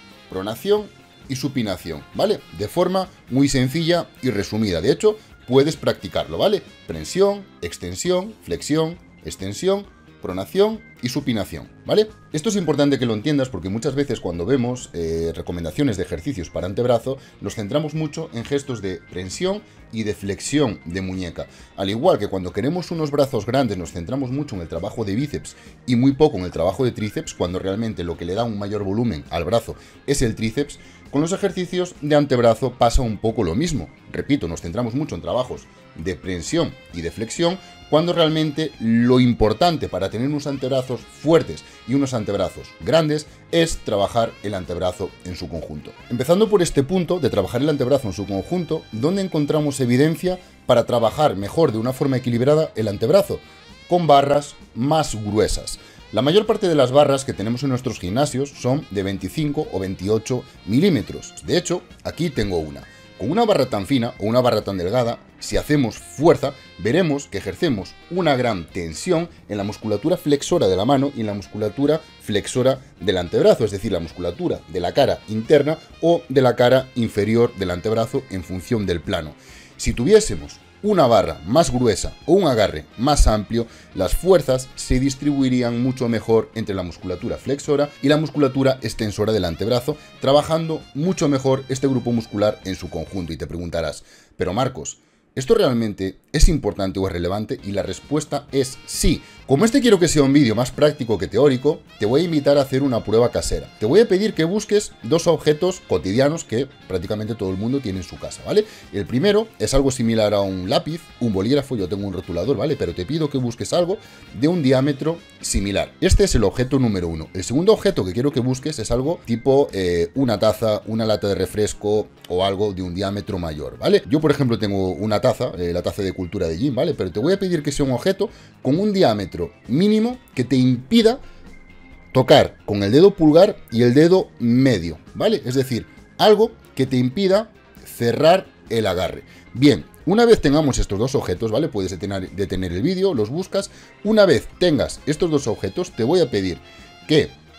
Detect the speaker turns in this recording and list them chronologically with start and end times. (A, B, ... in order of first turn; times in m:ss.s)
0:00.3-2:11.2 A
2:12.1-2:27.3 A